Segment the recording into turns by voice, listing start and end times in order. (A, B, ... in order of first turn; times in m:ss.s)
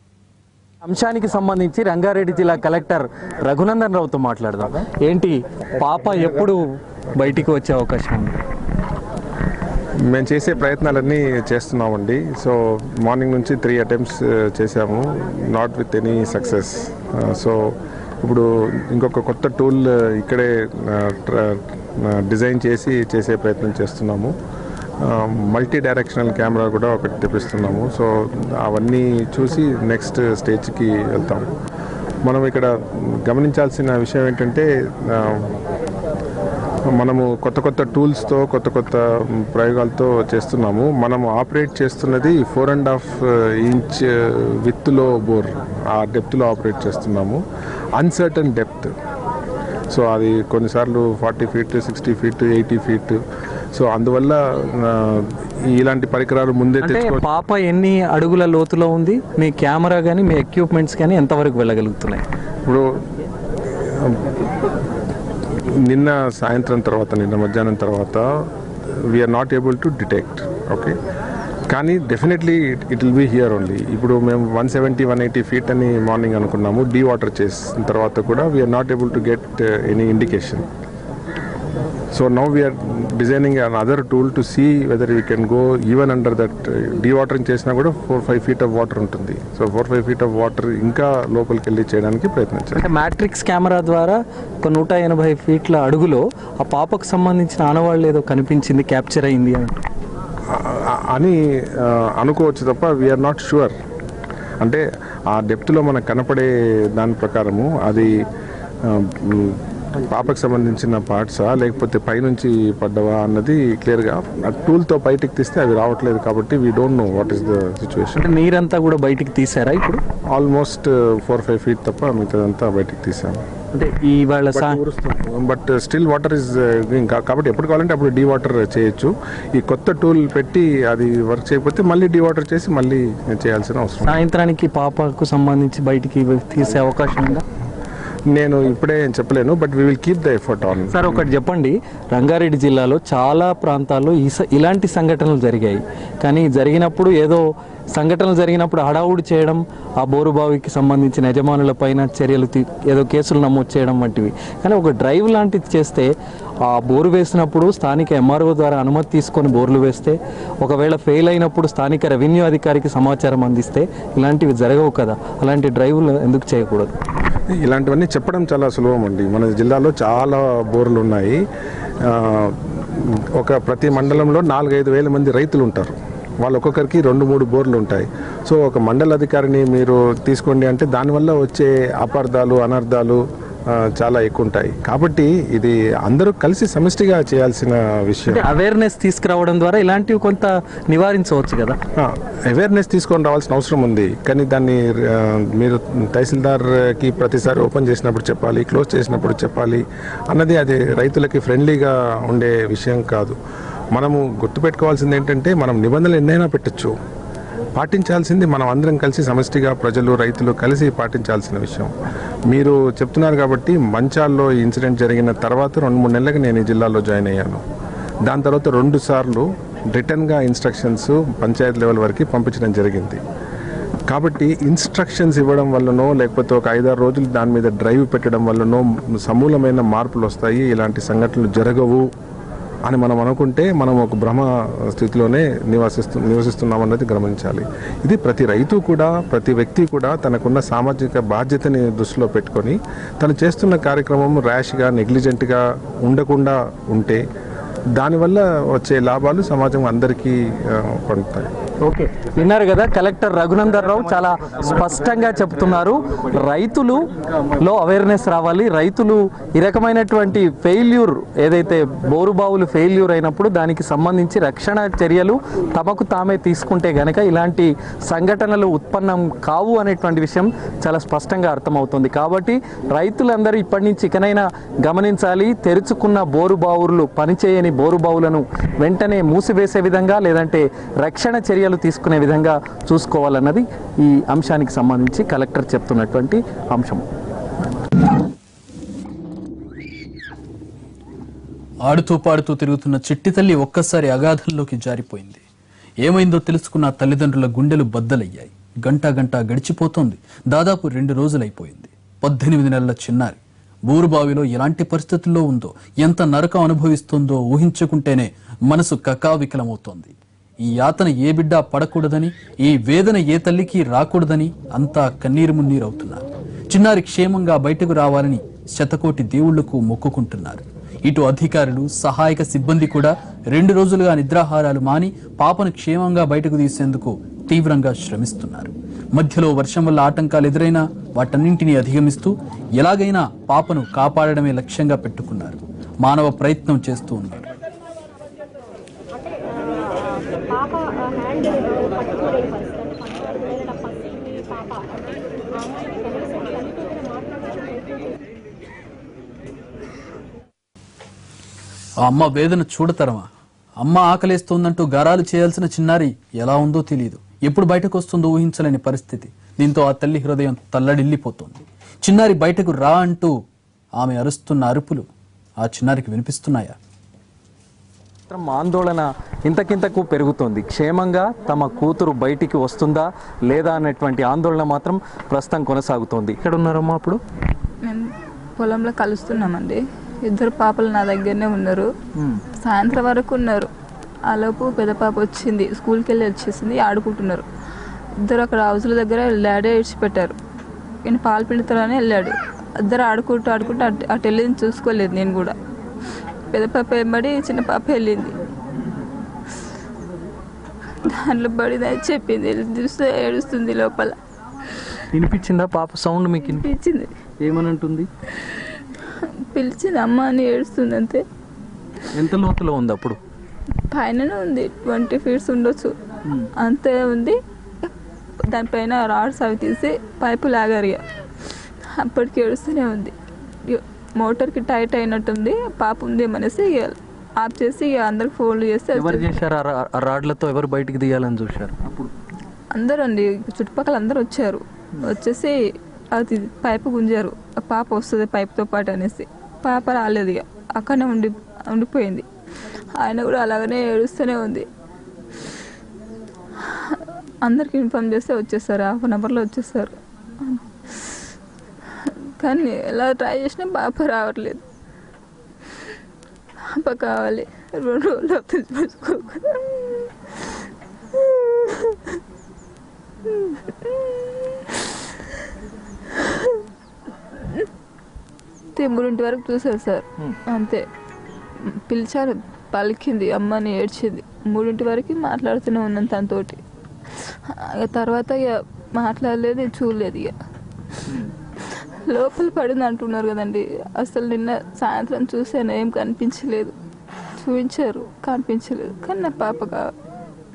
0:00.8-0:06.6 A
0:07.2-0:08.4 A
0:10.1-0:17.6 B
0:18.2-0:24.3 B
0:25.0-0:31.5 B
0:32.2-0:35.5 B
0:37.0-0:47.4 B
0:48.0-0:48.9 B
0:49.9-0:53.2 B
0:53.7-0:57.2 B
0:56.8-1:02.2 A
1:03.8-1:04.3 B
1:05.8-1:08.2 B
1:08.9-1:10.9 B
1:11.7-1:20.7 B
1:22.1-1:32.8 B
1:32.7-1:39.7 A
1:40.5-1:43.8 B
1:44.6-1:48.1 B
1:48.8-1:58.2 B
1:58.2-2:00.0 A
2:00.3-2:03.4 B
2:03.7-2:04.8 A
2:04.5-2:14.2 B
2:14.0-2:17.4 A
2:18.3-2:21.2 B
2:20.9-2:36.1 A
2:36.6-2:46.9 A
2:47.6-2:51.4 B
2:52.0-3:08.4 B
3:08.3-3:11.8 A
3:12.0-3:23.4 B
3:23.9-3:26.9 B
3:27.7-3:31.9 B
3:32.5-3:37.6 B
3:38.2-3:43.2 B
3:44.1-3:52.0 B
3:52.8-4:07.2 B
4:08.0-4:11.5 B
4:11.8-4:17.0 A
4:17.6-4:47.0 A
4:51.8-4:55.4 C
4:56.0-5:37.5 C
5:40.5-5:44.6 D
5:45.7-5:47.1 D
5:52.0-5:53.3 C
5:53.8-6:03.3 C
6:04.0-6:05.1 C
6:05.6-6:06.8 C
6:08.3-6:17.2 A
6:18.6-6:21.9 E
6:22.6-6:23.7 E
6:24.3-6:27.4 E
6:28.2-6:30.4 E
6:31.0-6:35.5 E
6:36.5-6:38.3 E
6:41.0-6:44.2 E
6:45.1-6:46.7 A
6:46.4-6:47.1 E
6:47.4-6:48.1 A
6:48.4-6:51.2 E
6:52.1-6:53.2 A
6:53.9-6:55.9 E
6:56.6-6:57.9 E
6:58.5-7:01.0 E
7:02.0-7:03.1 E
7:03.7-7:09.3 E
7:08.9-7:12.1 A
7:12.7-7:15.6 E
7:16.1-7:22.2 E
7:23.0-7:24.6 E
7:26.6-7:31.2 E
7:32.0-7:34.6 E
7:36.7-7:40.5 E
7:41.1-7:42.2 E
7:43.3-7:45.3 E
7:46.1-7:46.5 E
7:48.7-7:50.8 E
7:51.6-7:56.6 E
7:57.2-8:00.3 E
8:01.7-8:06.7 E
8:07.3-8:09.9 E